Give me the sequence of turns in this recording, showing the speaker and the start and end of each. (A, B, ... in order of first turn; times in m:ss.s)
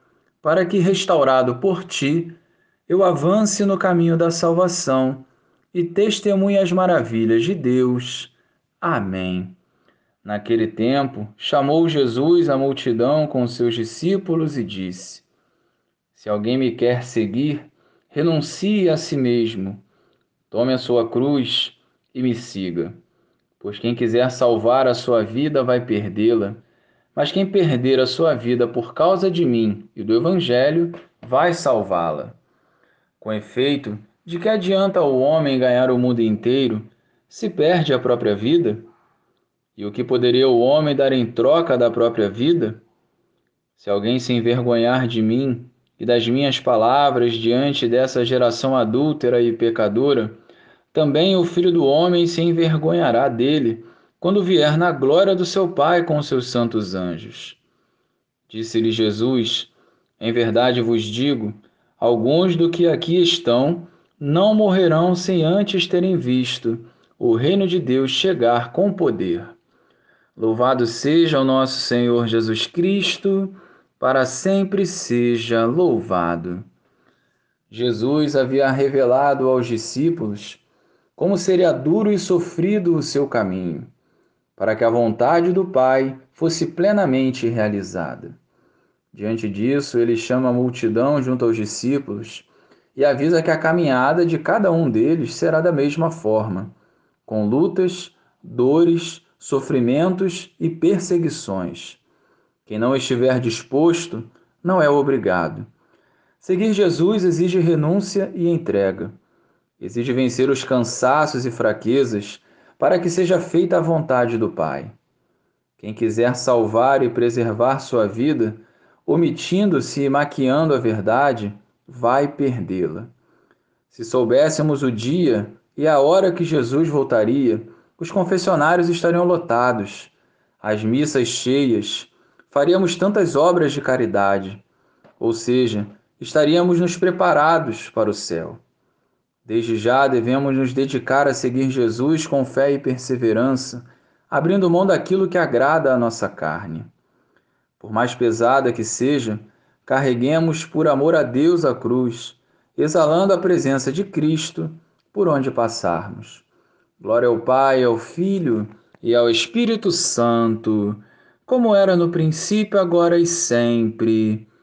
0:00.4-0:09.6 A
0:10.2-0:15.2 A
0:16.1-0:19.8 A
0:20.5-0:23.0 A
0:23.6-0:26.6 A
0:27.1-0:32.4 A
0:33.2-0:38.9 A
0:39.8-0:42.8 A
0:43.8-0:50.4 A
0:50.9-0:57.6 A
0:58.5-1:09.6 A
1:10.4-1:16.6 A
1:17.7-1:20.6 A
1:21.2-1:23.9 A
1:24.6-1:28.3 A
1:29.1-1:36.7 A
1:37.2-1:42.0 A
1:42.6-1:45.7 A
1:46.4-1:49.1 A
1:49.8-1:54.9 A
1:55.8-2:03.1 A
2:03.9-2:14.6 A
2:15.2-2:18.6 A
2:19.4-2:26.9 A
2:27.8-2:36.4 A
2:37.0-2:44.5 A